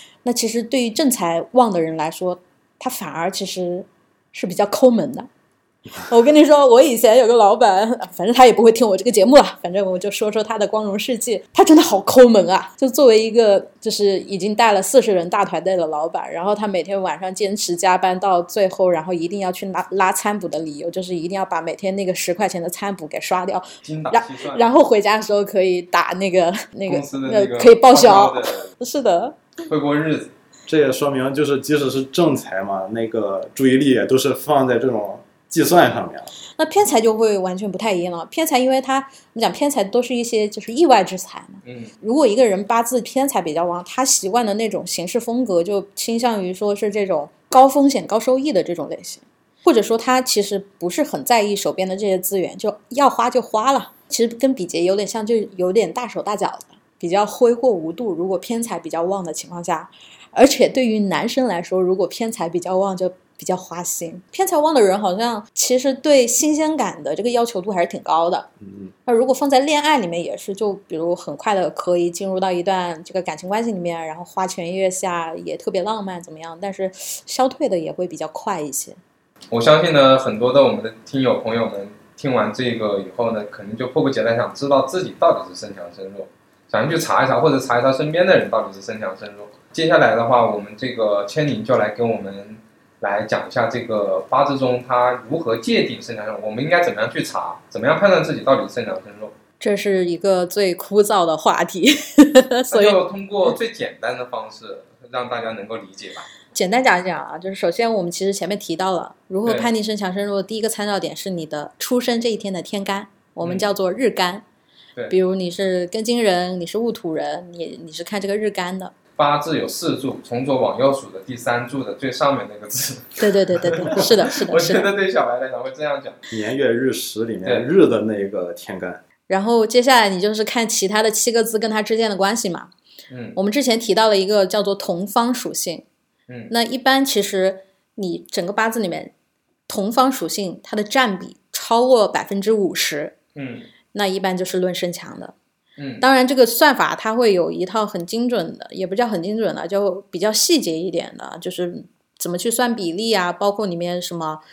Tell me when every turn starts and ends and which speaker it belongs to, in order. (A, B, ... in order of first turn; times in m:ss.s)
0:00.2-0:05.3 A
0:06.0-0:29.4 A
0:23.8-0:24.7 B
0:26.9-0:28.7 B
0:29.7-0:30.3 B
0:30.7-0:36.3 C
0:36.6-1:08.5 A
0:41.6-0:41.9 B
1:08.6-1:08.9 C
1:09.0-1:19.0 A
1:19.5-1:39.3 B
1:39.6-1:43.0 A
1:42.7-1:46.3 B
1:46.5-1:54.4 A
1:49.4-1:49.7 B
1:53.4-1:53.7 B
1:55.1-1:58.9 A
1:59.2-2:06.2 B
2:03.2-2:04.9 A
2:06.3-2:09.0 C
2:09.3-2:12.7 A
2:13.1-2:13.4 B
2:13.3-2:15.8 A
2:16.5-2:19.1 A
2:19.7-2:23.2 A
2:23.3-2:23.7 B
2:23.9-2:25.3 A
2:25.8-2:26.0 B
2:26.0-2:34.4 A